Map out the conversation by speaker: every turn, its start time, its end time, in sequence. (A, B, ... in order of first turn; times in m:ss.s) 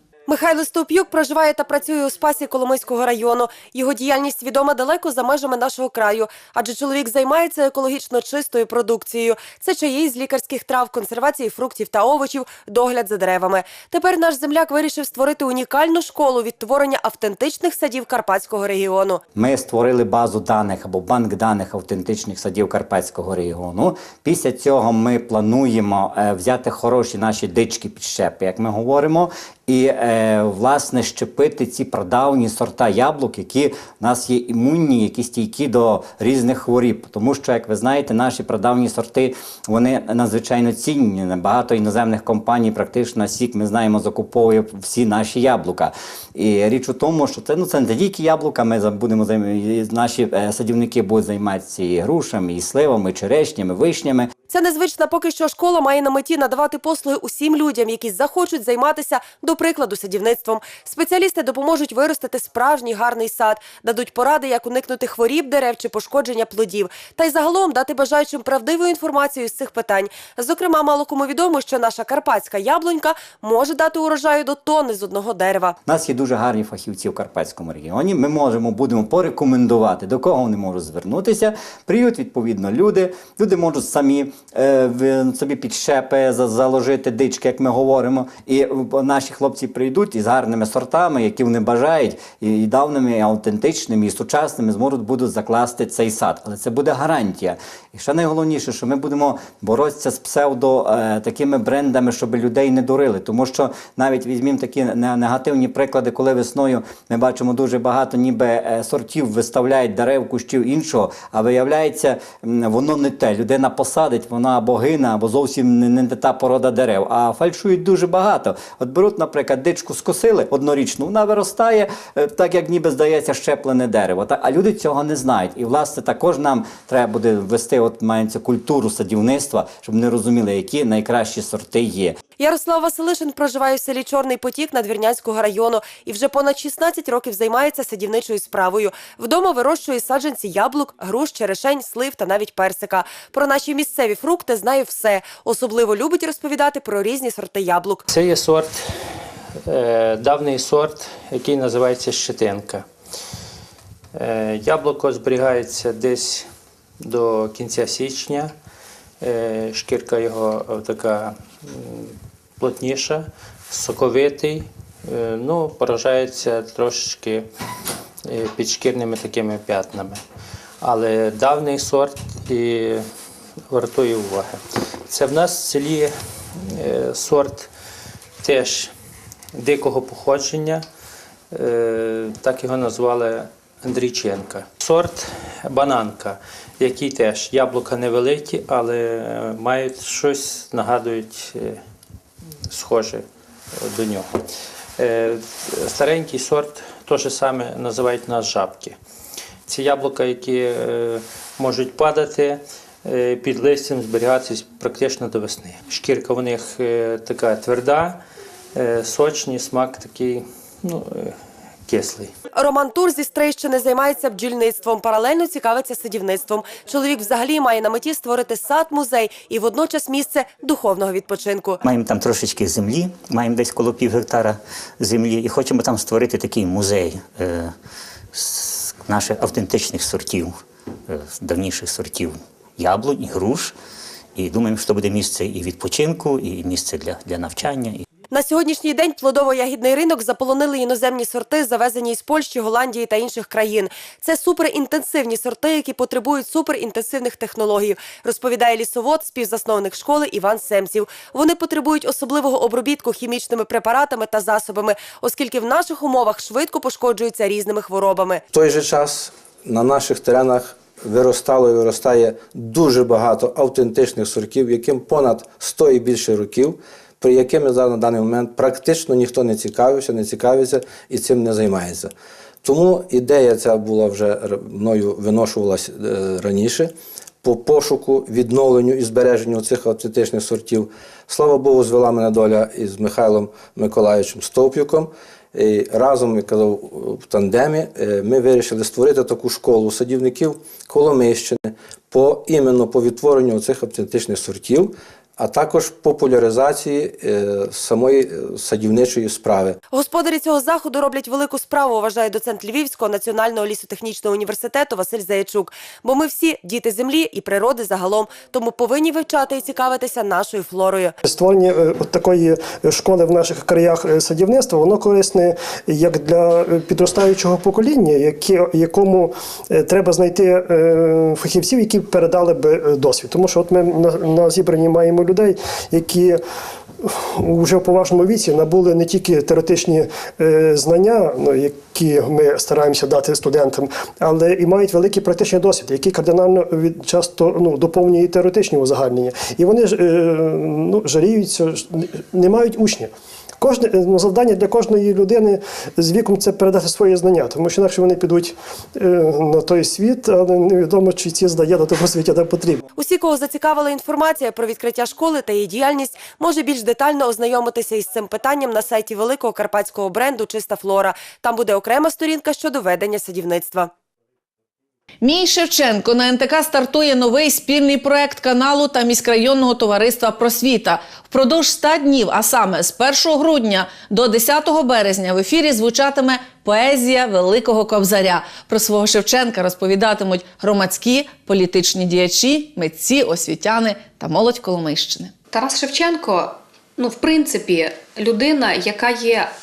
0:00.3-0:19.2 A
0:19.3-0:54.3 B
0:54.5-1:15.8 A
1:15.8-2:12.2 B
2:12.4-2:28.0 A
2:28.1-2:29.1 C
2:29.6-2:32.9 C
2:34.1-2:36.5 C
2:37.0-2:38.5 C
2:39.2-2:47.5 C
2:48.2-2:50.2 C
2:50.8-2:53.1 C
2:53.7-2:57.7 C
2:58.4-2:58.9 C
2:59.5-3:00.8 C
3:01.5-3:11.8 C
3:12.7-3:14.4 C
3:15.0-3:19.0 C
3:19.7-3:28.2 C
3:28.7-3:32.3 C
3:32.5-3:41.8 A
3:41.8-3:47.7 D
3:48.3-3:50.6 D
3:51.1-3:53.7 D
3:54.4-3:58.0 D
3:58.3-4:18.4 A
4:18.5-4:36.9 E
4:37.4-4:59.8 E
4:59.9-5:11.2 A
5:11.2-5:26.4 F
5:27.0-5:52.8 F
5:53.0-6:03.9 A
6:05.2-6:25.3 G
6:25.5-6:29.5 H